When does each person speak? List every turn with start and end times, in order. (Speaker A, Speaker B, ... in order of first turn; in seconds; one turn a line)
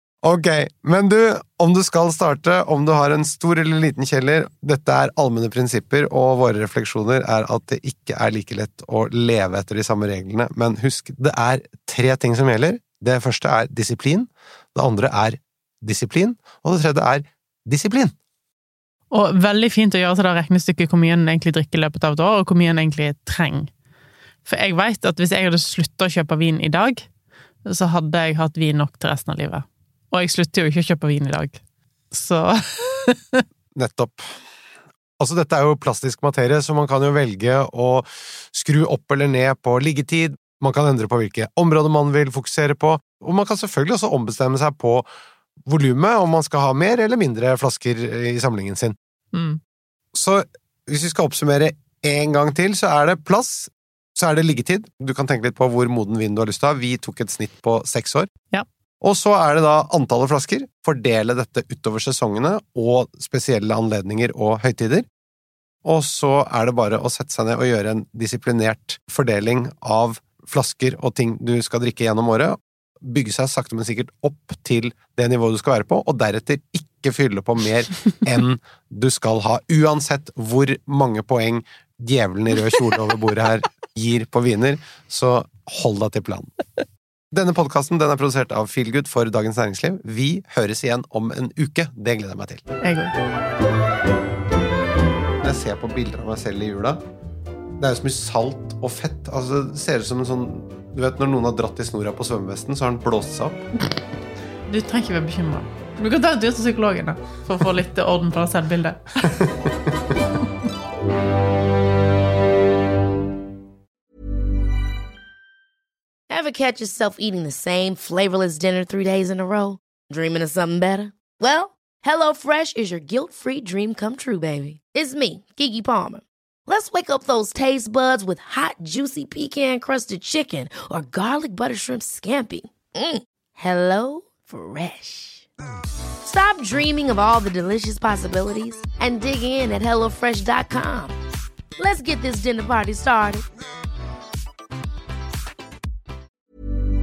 Speaker A: 0.2-18.1
Speaker B: 19.1-23.7
Speaker B: 24.4-27.1
Speaker B: 27.6-31.6
Speaker B: 32.1-33.5
Speaker A: 33.8-34.3
Speaker A: 35.2-45.1
Speaker A: 45.6-49.0
Speaker B: 49.3-49.6
Speaker A: 50.1-58.3
Speaker A: 59.0-65.0
Speaker A: 65.8-86.5
Speaker A: 87.3-92.8
Speaker B: 92.8-93.1
Speaker A: 95.4-97.0
Speaker A: 97.8-103.6
Speaker B: 104.7-109.4
Speaker C: 116.3-135.4
Speaker C: 136.2-141.2
Speaker C: 141.8-143.4